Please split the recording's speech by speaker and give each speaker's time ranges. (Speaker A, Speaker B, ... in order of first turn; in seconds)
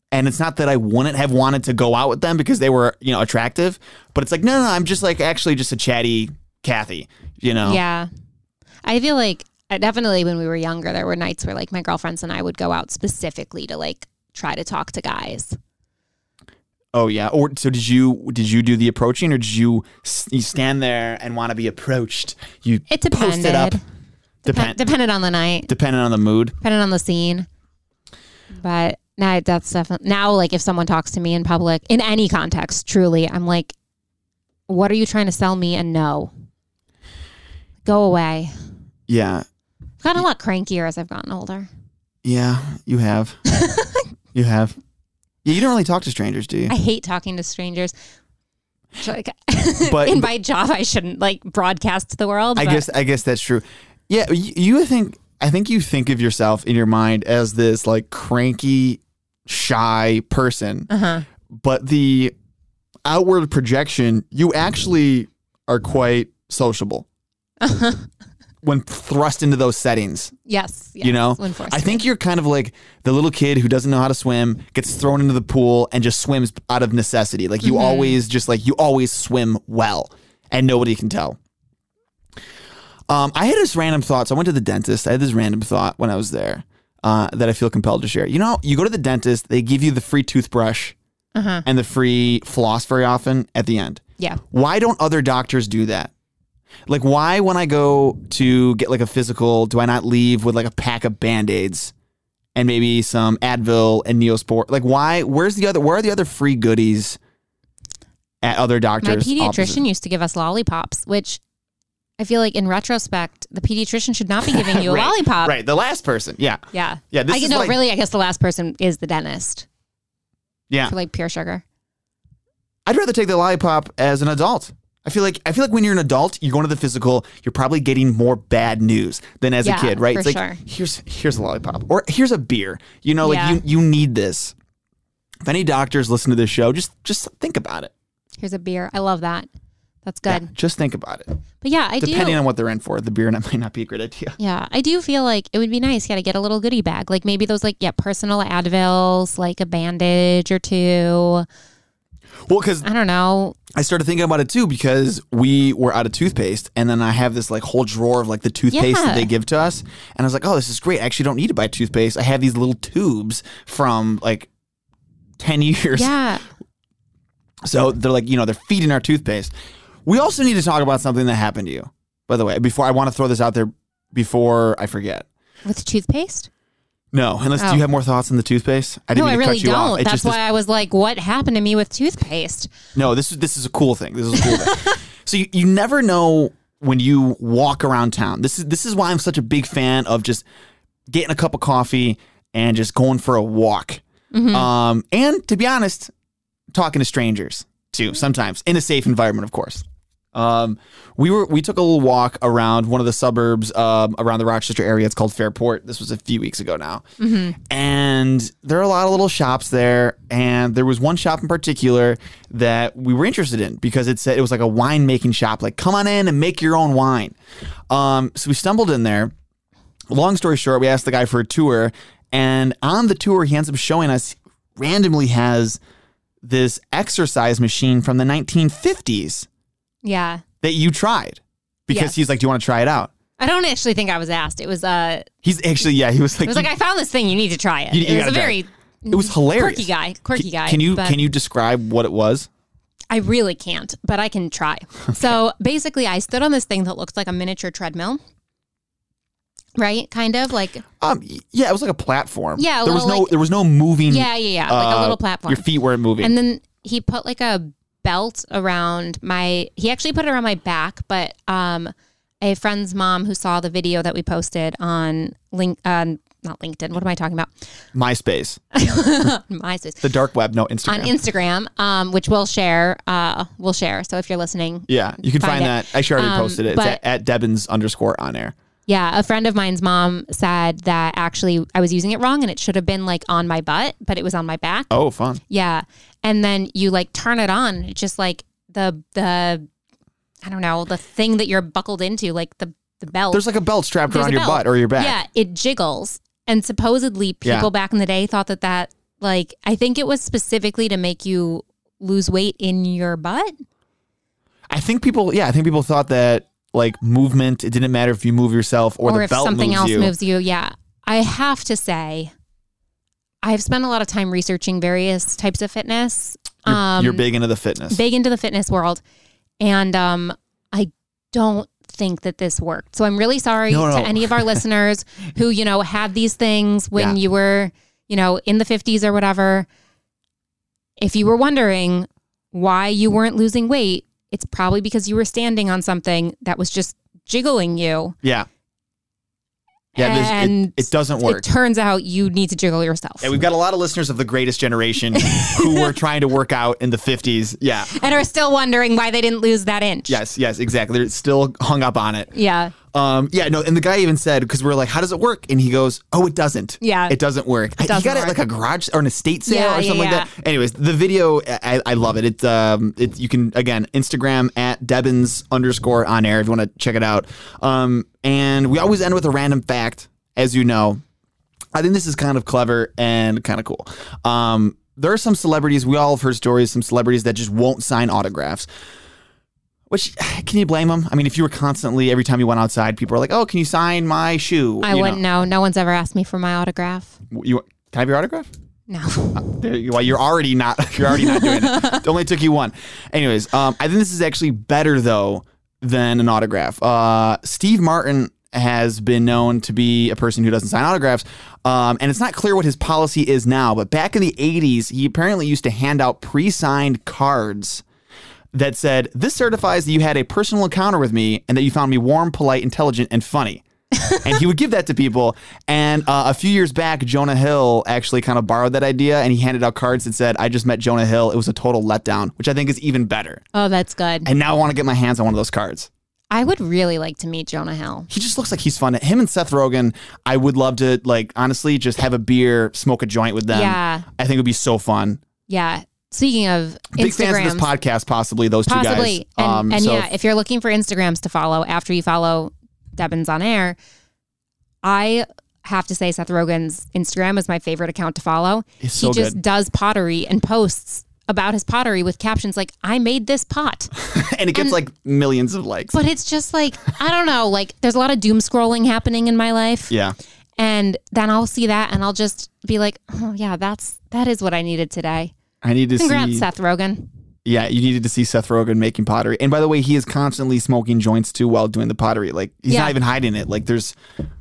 Speaker A: 0.1-7.8, 16.9-23.8, 24.4-24.8, 25.7-26.6, 39.1-39.5, 42.2-43.4, 44.3-44.8, 45.4-46.7, 49.8-50.3, 52.6-60.9, 61.5-62.3, 63.1-67.1, 68.6-70.3, 71.0-81.4, 83.1-91.0, 91.7-96.1, 96.9-101.9, 102.5-107.2, 108.4-109.8, 114.5-116.6, 117.1-117.8, 122.9-134.5, 135.4-137.9, 140.3-141.4, 142.0-144.4, 152.5-152.9, 153.7-164.5, 165.4-166.2, 167.7-169.5, 170.1-175.3, 177.1-180.4, 182.9-190.4, 191.1-196.1, 196.7-207.0, 207.7-217.4, 217.9-219.3, 220.1-225.8, 226.4-229.5, 230.6-233.1, 235.4-236.7, 237.9-238.6, 239.1-242.5, 251.0-256.3, 267.9-268.6, 270.0-271.1, 274.9-278.6, 284.9-285.4, 293.3-295.1, 297.4-297.7, 304.7-310.1, 316.7-318.0, 323.7-324.6, 340.0-341.5, 343.2-348.0, 350.1-352.3, 352.9-371.0, 371.7-378.7, 379.9-385.2, 387.3-388.5, 389.4-407.8, 408.5-413.6, 414.2-423.4, 424.2-425.9, 428.1-435.2, 436.9-440.1, 448.8-449.4, 454.0-456.0, 459.9-460.2, 465.6-466.5, 467.4-474.0
Speaker B: 7.6-8.1, 8.8-15.6, 22.9-23.8, 24.4-25.7, 26.6-27.5, 28.6-33.7, 34.7-36.3, 37.9-38.5, 40.0-41.7, 43.5-44.0, 46.7-47.9, 49.0-52.9, 60.9-61.2, 67.6-68.1, 70.5-72.0, 77.6-78.2, 91.3-91.7, 109.0-111.4, 112.2-115.6, 116.7-119.7, 120.9-121.6, 129.6-130.6, 133.2-133.6, 138.4-139.5, 140.1-140.5, 141.6-142.4, 144.4-151.5, 152.8-153.6, 158.7-159.3, 165.9-166.4, 175.7-176.5, 177.6-177.8, 179.1-182.7, 184.4-185.0, 194.3-194.7, 207.2-207.6, 230.0-230.4, 231.9-232.2, 233.4-235.3, 236.4-241.2, 243.1-248.2, 249.8-250.8, 252.6-253.4, 254.1-255.7, 256.2-267.5, 268.7-270.1, 270.9-277.0, 278.9-284.9, 285.5-289.7, 290.4-293.5, 294.1-303.5, 309.0-312.3, 313.4-317.2, 317.9-319.0, 319.6-329.7, 331.0-338.2, 339.9-343.4, 345.1-345.9, 347.9-350.2, 352.3-352.8, 356.8-357.2, 357.8-358.4, 359.5-360.3, 384.8-387.2, 388.9-389.5, 391.1-392.1, 423.5-424.3, 426.3-428.1, 433.5-434.1, 435.5-437.7, 438.7-443.8, 444.8-453.9, 455.9-459.9, 460.6-465.3, 466.0-467.1, 472.7-473.0